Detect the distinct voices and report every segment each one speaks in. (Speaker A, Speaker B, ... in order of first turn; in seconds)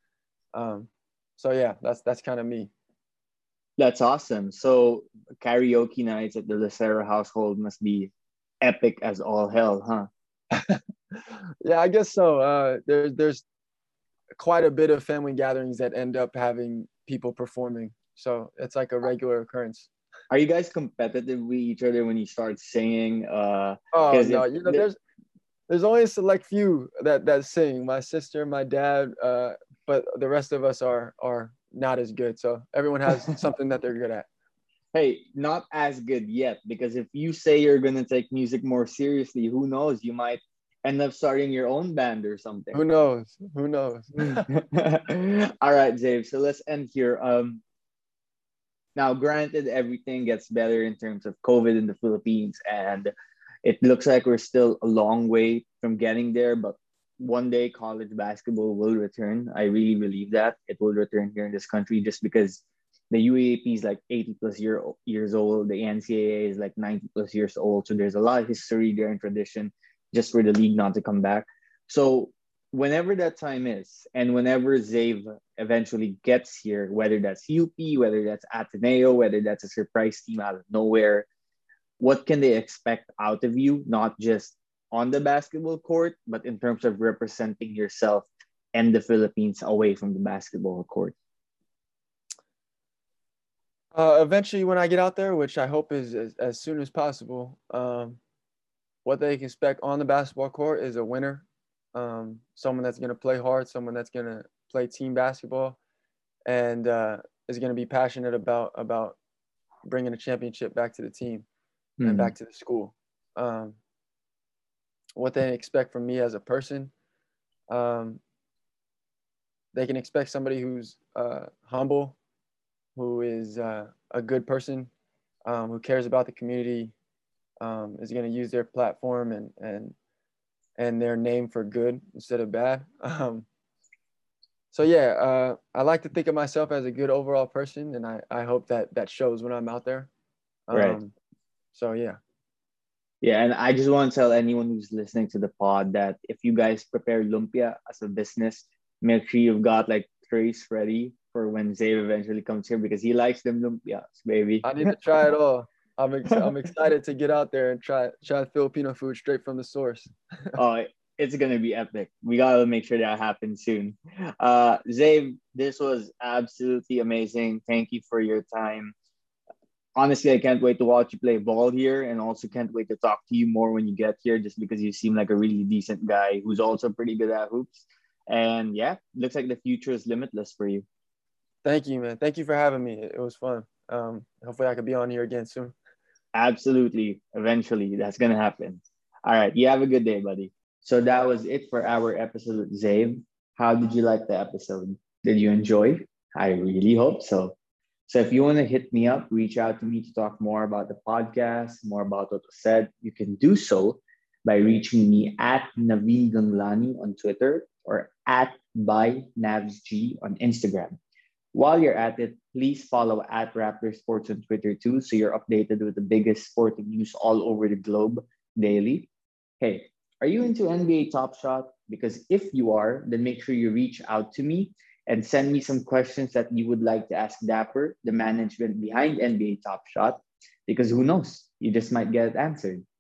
Speaker A: 0.5-2.7, 10.5-13.4, 14.4-19.9, 23.9-25.0, 25.7-34.3, 42.7-44.5, 93.9-98.2, 99.0-105.8, 106.5-109.2, 109.8-111.5, 112.0-113.8, 115.2-116.9, 117.7-118.2, 119.7-122.2, 123.0-124.9, 125.5-126.9, 127.6-129.9, 130.8-133.5, 134.7-140.1, 140.7-141.1, 141.7-142.2, 154.6-160.6, 181.7-185.8
Speaker B: 3.8-8.1, 8.6-10.1, 20.3-24.9, 34.9-42.8, 44.2-47.6, 49.0-53.1, 53.6-81.3, 82.0-91.2, 112.0-112.3, 140.7-141.0, 143.2-154.9, 160.6-168.9, 170.0-180.8, 186.3-197.6, 198.1-211.0, 211.5-232.8